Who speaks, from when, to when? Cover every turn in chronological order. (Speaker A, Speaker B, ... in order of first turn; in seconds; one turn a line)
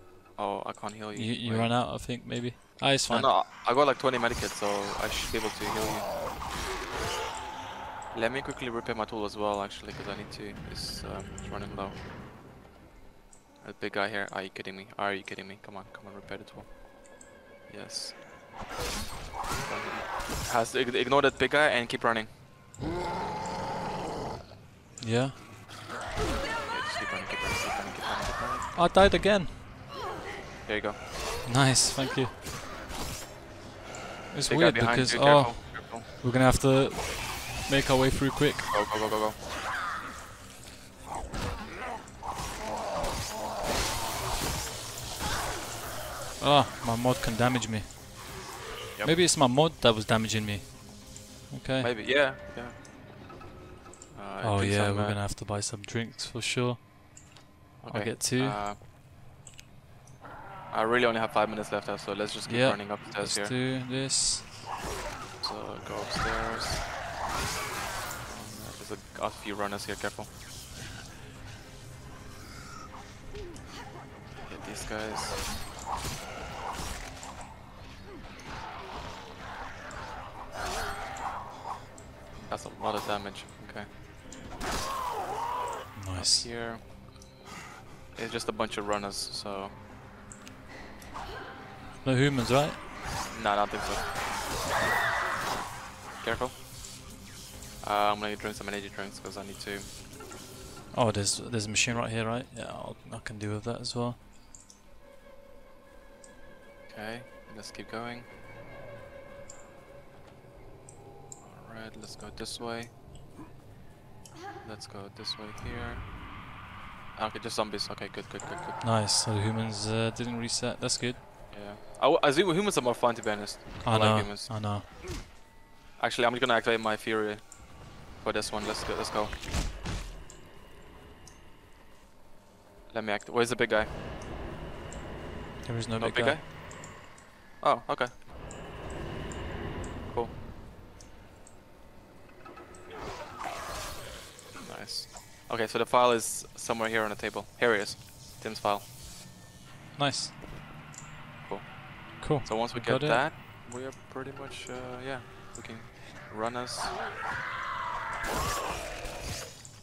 Speaker A: 0.3-1.8
Speaker B: 1.1-3.4
Speaker A: 3.1-6.2
Speaker A: 8.1-12.0
Speaker A: 13.6-16.8
Speaker A: 17.7-18.2
Speaker A: 19.6-22.3
Speaker B: 25.0-25.4
Speaker A: 26.6-28.7
Speaker B: 28.7-29.6
Speaker A: 30.6-31.0
Speaker B: 31.4-32.3
Speaker B: 34.3-38.7
Speaker A: 34.5-36.1
Speaker A: 38.7-39.4
Speaker B: 46.4-47.9
Speaker B: 49.0-50.9
Speaker B: 51.5-51.9
Speaker A: 51.8-52.8
Speaker A: 54.1-55.2
Speaker B: 54.4-56.9
Speaker B: 57.8-58.6
Speaker A: 57.8-58.8
Speaker A: 60.7-63.6
Speaker B: 62.5-64.5
Speaker A: 65.4-66.9
Speaker A: 68.2-70.3
Speaker A: 74.4-75.5
Speaker A: 82.5-83.9
Speaker B: 85.9-86.5
Speaker A: 86.2-86.9
Speaker A: 88.1-89.8
Speaker B: 92.0-92.8
Speaker A: 93.3-94.2
Speaker A: 96.2-96.6
Speaker A: 97.8-99.9
Speaker B: 100.9-104.2
Speaker A: 106.9-108.3
Speaker A: 111.4-112.9
Speaker A: 114.6-116.1
Speaker A: 117.1-118.8
Speaker B: 118.8-121.2
Speaker A: 121.5-124.8
Speaker B: 123.8-124.9
Speaker A: 126.0-129.4
Speaker A: 132.9-133.9
Speaker B: 135.6-136.4
Speaker A: 136.0-136.5
Speaker A: 137.6-138.2
Speaker A: 140.1-140.3
Speaker A: 144.6-148.9
Speaker B: 149.9-150.3
Speaker A: 151.4-157.0
Speaker B: 152.2-153.2